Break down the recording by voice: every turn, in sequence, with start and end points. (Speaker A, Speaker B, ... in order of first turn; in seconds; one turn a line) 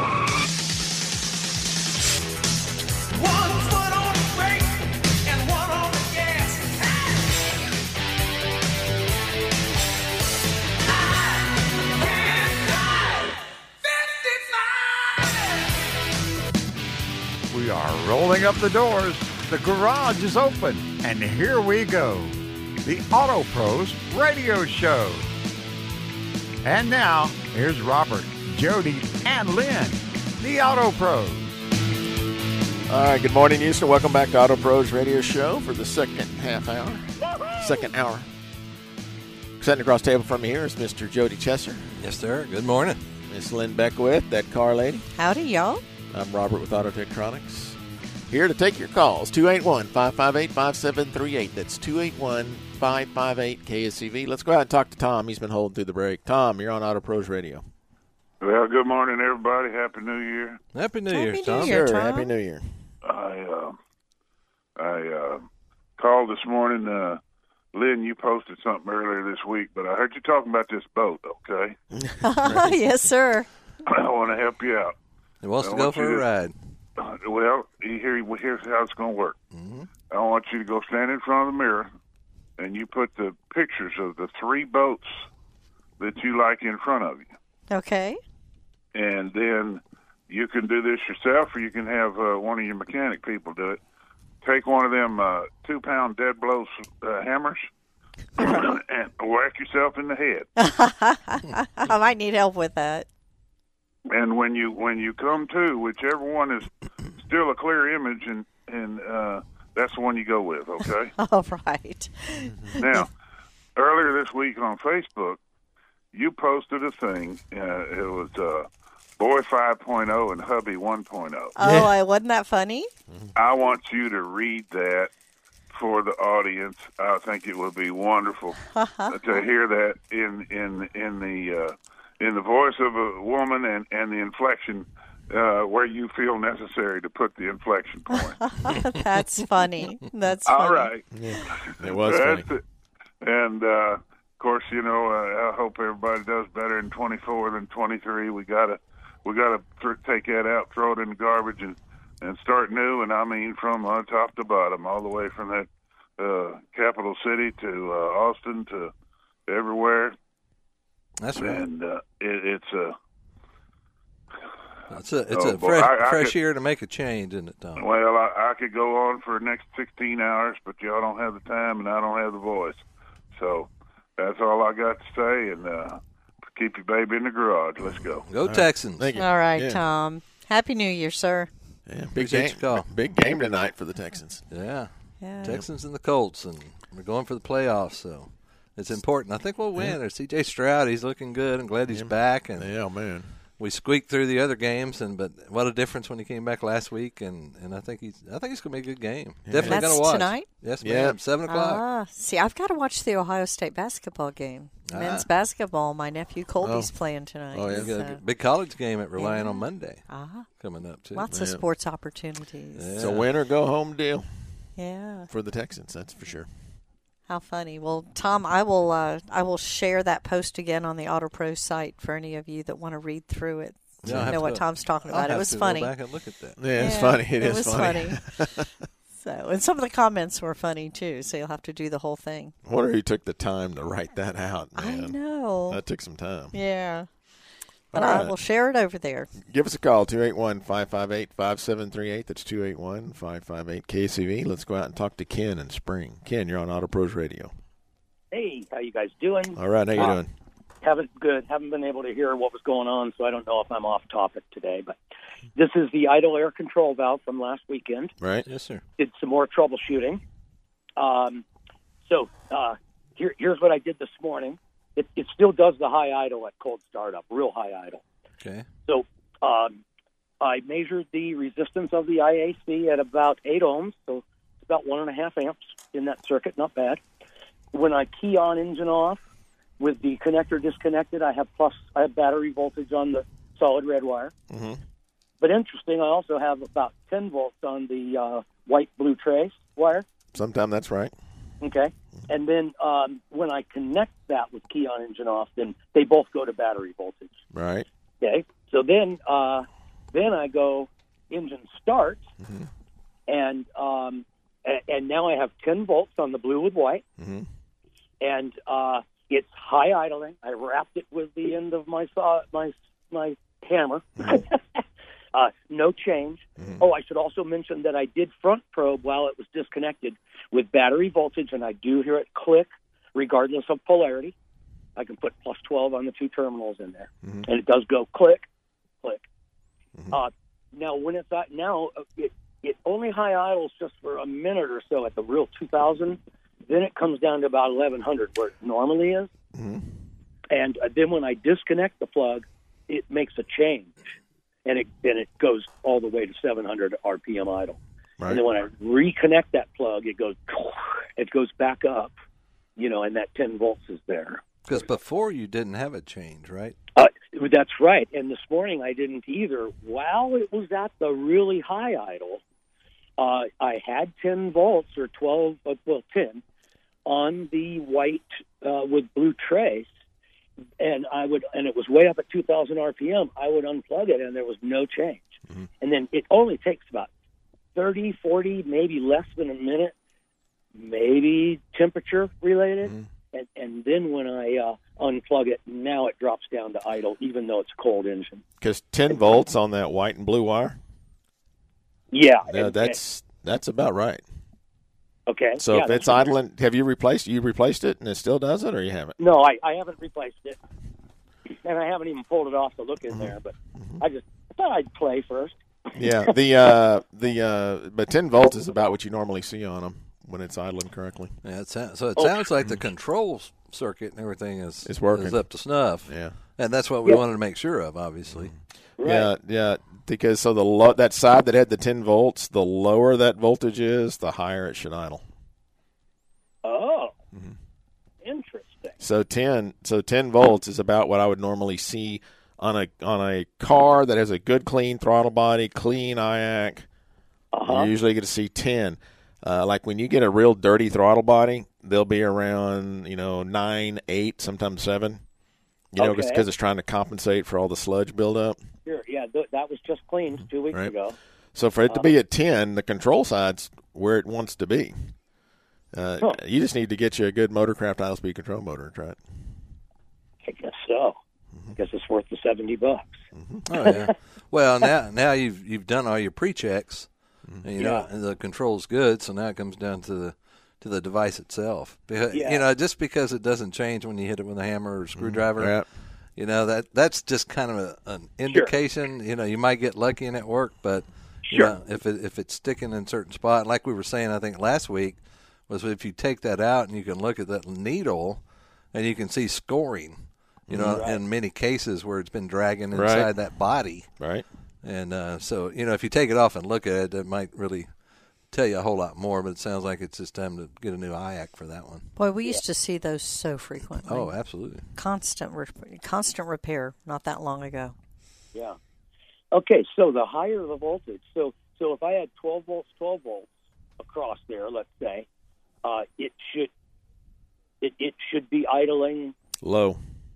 Speaker A: 3.1-7.4
Speaker A: 11.9-15.6
Speaker B: 17.5-25.3
Speaker B: 26.6-31.6
Speaker C: 32.9-38.3
Speaker C: 39.6-41.9
Speaker D: 42.0-43.0
Speaker C: 43.3-45.0
Speaker E: 45.1-45.8
Speaker C: 46.1-47.8
Speaker C: 48.3-57.6
Speaker F: 58.4-60.6
Speaker D: 60.7-61.8
Speaker E: 61.1-62.3
Speaker C: 61.6-62.7
Speaker F: 63.0-63.8
Speaker F: 64.8-67.2
Speaker F: 67.7-71.8
Speaker C: 71.9-72.7
Speaker E: 72.2-73.5
Speaker F: 73.9-74.9
Speaker D: 75.4-76.5
Speaker F: 75.6-76.2
Speaker F: 77.0-79.4
Speaker D: 79.5-79.9
Speaker F: 80.1-81.9
Speaker F: 82.6-85.2
Speaker F: 86.0-87.3
Speaker E: 87.7-88.2
Speaker F: 89.0-93.8
Speaker F: 94.4-97.7
Speaker F: 98.4-100.5
Speaker E: 100.6-103.1
Speaker F: 104.1-111.1
Speaker E: 111.2-113.0
Speaker F: 112.7-113.1
Speaker F: 113.8-115.4
Speaker F: 116.1-121.5
Speaker E: 121.6-122.9
Speaker F: 123.3-125.1
Speaker F: 125.7-138.4
Speaker E: 128.8-129.2
Speaker E: 138.4-141.4
Speaker F: 140.5-141.1
Speaker C: 141.1-142.5
Speaker F: 141.7-142.6
Speaker F: 143.2-158.9
Speaker F: 159.5-160.2
Speaker D: 161.2-161.6
Speaker F: 161.4-163.0
Speaker D: 164.9-167.8
Speaker F: 165.3-166.3
Speaker F: 167.8-172.8
Speaker F: 173.3-176.0
Speaker F: 176.5-178.3
Speaker D: 178.3-179.1
Speaker C: 178.4-179.8
Speaker E: 179.2-181.5
Speaker C: 181.9-184.5
Speaker D: 182.2-183.4
Speaker D: 184.5-192.7
Speaker E: 185.2-185.6
Speaker C: 191.9-193.3
Speaker D: 193.6-201.8
Speaker C: 199.5-200.0
Speaker E: 199.7-200.5
Speaker C: 200.8-201.2
Speaker E: 201.5-208.2
Speaker D: 204.9-205.3
Speaker C: 206.6-206.9
Speaker C: 207.5-207.9
Speaker D: 207.7-210.0
Speaker E: 209.2-210.5
Speaker D: 210.6-211.3
Speaker E: 211.2-212.9
Speaker C: 211.3-211.6
Speaker D: 212.8-213.3
Speaker C: 213.0-214.2
Speaker E: 214.8-215.3
Speaker C: 215.3-216.5
Speaker E: 217.3-225.9
Speaker C: 224.0-224.4
Speaker D: 224.1-226.6
Speaker C: 226.6-228.7
Speaker E: 226.8-228.3
Speaker E: 229.1-232.5
Speaker C: 232.7-236.6
Speaker E: 234.8-235.8
Speaker E: 236.5-237.1
Speaker C: 237.9-238.3
Speaker E: 237.9-239.3
Speaker C: 239.4-247.5
Speaker G: 248.3-250.2
Speaker C: 249.6-250.3
Speaker G: 250.8-254.9
Speaker G: 255.6-258.1
Speaker C: 258.2-258.5
Speaker D: 258.5-258.8
Speaker G: 259.0-260.2
Speaker G: 261.0-261.4
Speaker G: 262.1-268.0
Speaker D: 268.4-268.7
Speaker G: 268.9-269.8
Speaker G: 270.4-277.0
Speaker G: 277.7-279.2
Speaker G: 279.8-284.3
Speaker C: 284.5-284.8
Speaker G: 285.4-290.1
Speaker C: 290.3-291.1
Speaker G: 291.6-297.4
Speaker C: 297.5-297.9
Speaker G: 298.2-302.2
Speaker C: 302.4-302.7
Speaker G: 303.3-307.0
Speaker C: 307.2-307.5
Speaker G: 308.2-314.8
Speaker G: 315.3-324.3
Speaker C: 316.6-316.8
Speaker G: 325.0-328.5
Speaker G: 330.1-339.3
Speaker C: 339.5-340.0
Speaker G: 340.5-344.1
Speaker G: 344.7-352.1
Speaker G: 352.8-354.9
Speaker D: 354.7-356.8
Speaker G: 356.9-362.4
Speaker G: 363.2-366.4
Speaker G: 367.1-369.9
Speaker G: 370.8-377.1
Speaker G: 377.8-379.9
Speaker G: 380.8-388.4
Speaker C: 388.6-390.8
Speaker G: 392.1-393.0
Speaker C: 392.5-394.2
Speaker G: 395.3-396.3
Speaker C: 395.6-399.2
Speaker G: 399.2-400.6
Speaker G: 401.6-406.1
Speaker C: 403.1-404.0
Speaker C: 406.0-411.4
Speaker D: 411.4-418.5
Speaker C: 414.9-415.4
Speaker C: 416.1-416.4
Speaker C: 418.3-425.2
Speaker G: 419.0-419.3
Speaker G: 426.6-427.1
Speaker G: 428.2-429.0
Speaker C: 429.0-436.9
Speaker G: 437.5-437.9
Speaker C: 437.7-445.2
Speaker C: 445.9-448.6
Speaker G: 446.0-446.4
Speaker G: 448.9-451.2
Speaker C: 451.5-455.1
Speaker C: 455.9-459.2
Speaker G: 460.4-461.2
Speaker G: 461.8-463.2
Speaker C: 463.4-463.9
Speaker D: 463.7-467.1
Speaker G: 463.8-464.1
Speaker D: 467.6-475.8
Speaker G: 467.8-468.1
Speaker G: 472.3-472.6
Speaker C: 475.2-475.9
Speaker D: 476.4-488.4
Speaker D: 488.9-490.2
Speaker C: 490.7-491.1
Speaker D: 490.7-494.1
Speaker G: 490.9-491.2
Speaker C: 492.9-493.3
Speaker C: 494.2-494.4
Speaker D: 494.8-497.9
Speaker D: 498.5-502.1
Speaker E: 502.2-507.9
Speaker D: 504.1-504.9
Speaker G: 509.5-515.3
Speaker G: 515.8-516.7
Speaker G: 517.8-519.4
Speaker C: 519.6-520.0